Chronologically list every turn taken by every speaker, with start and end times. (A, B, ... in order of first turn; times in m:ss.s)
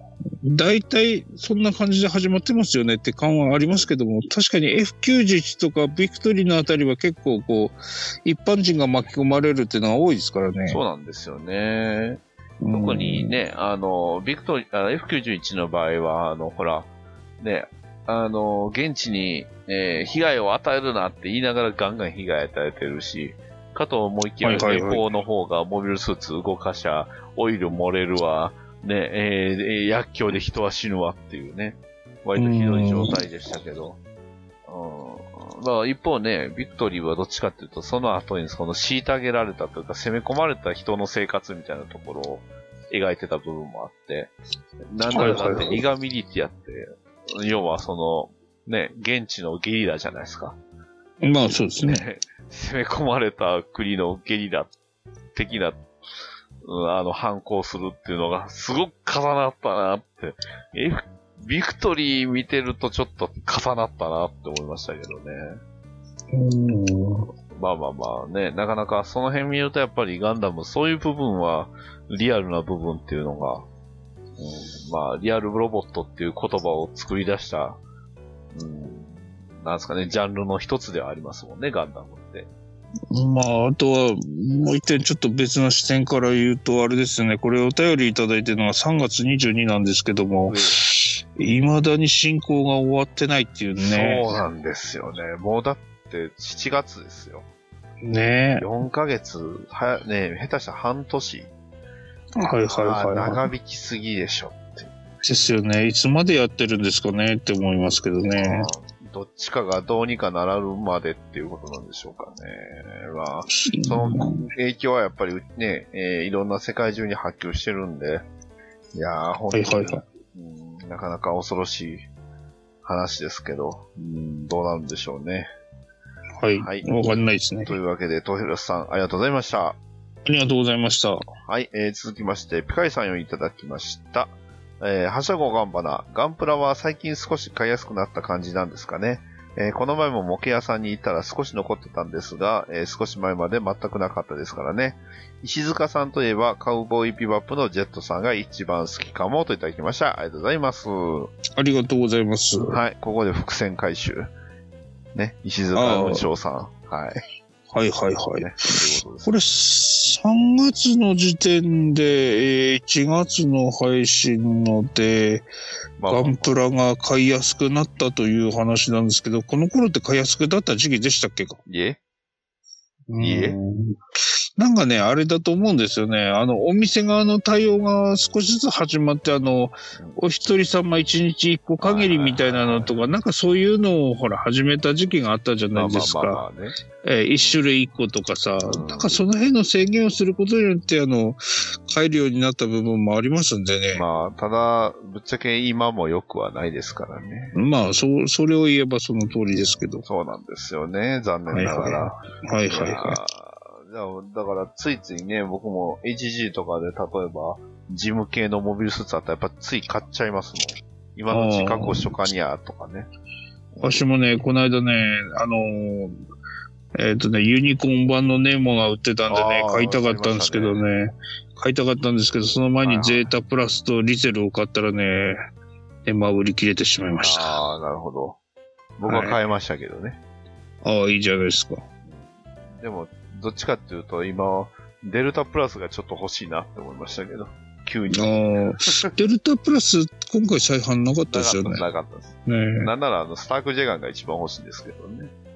0:00.4-0:10.8 A
0:10.7-0:34.0 B
0:12.6-0:13.4 A
0:24.4-0:25.0 A
0:32.4-0:33.2 A
0:34.7-0:44.3 B
0:44.9-0:50.6 B
0:45.1-0:45.8 A
0:51.2-0:52.0 A
0:51.8-0:54.7 B
0:55.3-0:55.8 B
0:56.6-1:05.6 B
1:06.3-1:07.3 A
1:07.5-1:13.6 B
1:14.4-1:17.8 B
1:18.5-1:22.5 B
1:23.1-1:34.2 A
1:30.5-1:30.8 B
1:33.8-1:37.4 B
1:38.0-1:38.7 A
1:38.6-1:41.5 B
1:42.4-1:43.4 A
1:42.6-1:44.9 B
1:45.2-1:48.7 A
1:48.4-1:58.2 B
1:53.5-1:54.5 A
1:58.9-2:02.1 B
1:59.5-2:00.0 A
2:02.8-2:05.5 B
2:06.4-2:07.7 A
2:06.6-2:06.9 B
2:07.6-2:09.8 B
2:10.2-2:11.2 A
2:11.5-2:31.3 B
2:31.5-2:32.8 A
2:32.7-2:34.3 B
2:35.1-2:37.2 B
2:35.7-2:36.3 A
2:37.7-2:45.4 A
2:38.4-2:39.3 B
2:46.0-2:46.6 B
2:46.1-2:51.6 A
2:51.7-2:52.0 B
2:53.1-2:54.0 A
2:53.2-2:53.6 B
2:54.6-3:06.4 A
3:01.8-3:02.9 B
3:05.7-3:06.7 B
3:07.0-3:14.0 A
3:08.7-3:09.2 B
3:13.9-3:17.6 B
3:17.5-3:20.0 A
3:20.0-3:33.1 B
3:21.5-3:23.2 A
3:31.3-3:32.1 A
3:33.7-3:34.0 B
3:33.8-3:36.2 A
3:36.9-3:45.4 A
3:39.3-3:40.8 B
3:42.8-3:43.3 B
3:46.0-3:47.5 A
3:47.2-3:48.4 B
3:49.0-3:50.2 B
3:49.0-3:49.4 A
3:50.8-3:51.8 A
3:52.0-3:58.4 B
3:58.1-4:01.8 A
4:01.3-4:05.3 B
4:02.4-4:02.9 A